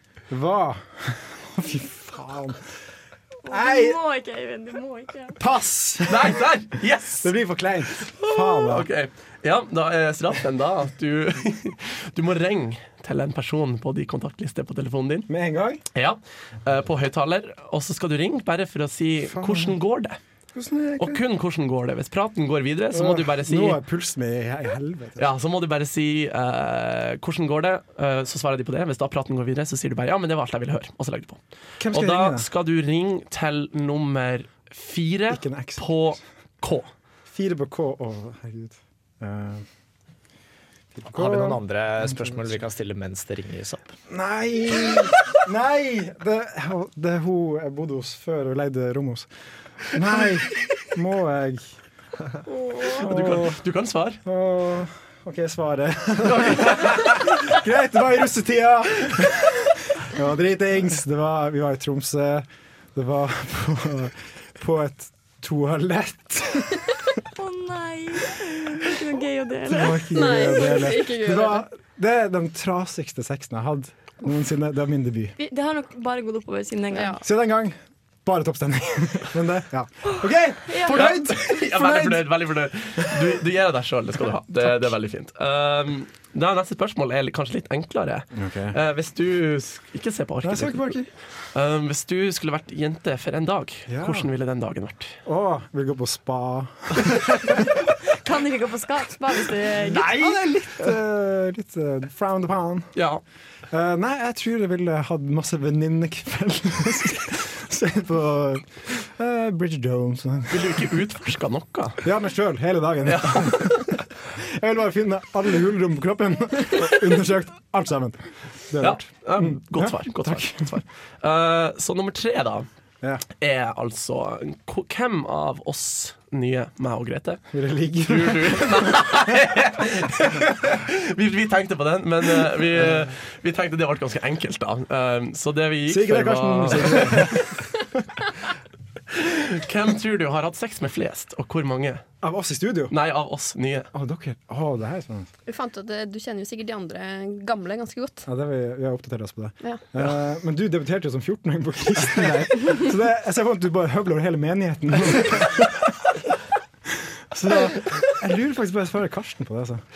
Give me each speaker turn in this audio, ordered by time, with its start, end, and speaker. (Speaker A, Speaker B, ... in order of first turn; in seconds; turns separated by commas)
Speaker A: 0.3-2.6, Speaker B: 3.4-5.4, Speaker A: 3.5-4.0, Speaker A: 5.3-6.5, Speaker C: 6.1-7.3, Speaker A: 7.2-8.9, Speaker C: 8.2-15.3, Speaker A: 15.3-15.8, Speaker C: 15.9-20.2, Speaker A: 19.3-19.8, Speaker A: 20.5-21.2, Speaker C: 21.0-23.8, Speaker A: 22.9-25.3, Speaker C: 25.2-36.9, Speaker A: 31.8-32.5, Speaker A: 35.3-35.9, Speaker A: 37.3-39.6, Speaker A: 40.9-42.5, Speaker D: 41.1-43.9, Speaker A: 44.1-49.3, Speaker A: 49.8-51.7, Speaker B: 52.6-52.9, Speaker A: 52.9-53.6, Speaker C: 52.9-54.2, Speaker A: 54.2-67.0, Speaker C: 56.3-57.1, Speaker B: 67.3-70.1, Speaker A: 69.7-75.3, Speaker E: 70.1-71.6, Speaker B: 75.4-77.2, Speaker E: 76.9-77.2, Speaker A: 77.2-82.3, Speaker B: 80.7-81.1, Speaker C: 80.9-91.0, Speaker A: 88.3-88.8, Speaker A: 90.4-91.1, Speaker C: 91.5-95.1, Speaker A: 93.9-94.3, Speaker A: 95.2-97.7, Speaker B: 98.0-100.3, Speaker A: 99.9-102.9, Speaker C: 103.0-103.2, Speaker A: 103.7-110.8, Speaker C: 110.5-112.0, Speaker A: 112.0-120.7, Speaker C: 113.0-113.9, Speaker C: 118.8-122.7, Speaker C: 123.4-127.4, Speaker A: 127.5-129.3, Speaker C: 128.0-137.5, Speaker A: 132.8-133.1, Speaker A: 135.9-138.0, Speaker C: 139.1-142.0, Speaker A: 142.2-142.9, Speaker C: 142.9-143.9, Speaker A: 143.9-145.3, Speaker E: 145.4-148.3, Speaker A: 148.2-155.9, Speaker A: 157.3-159.8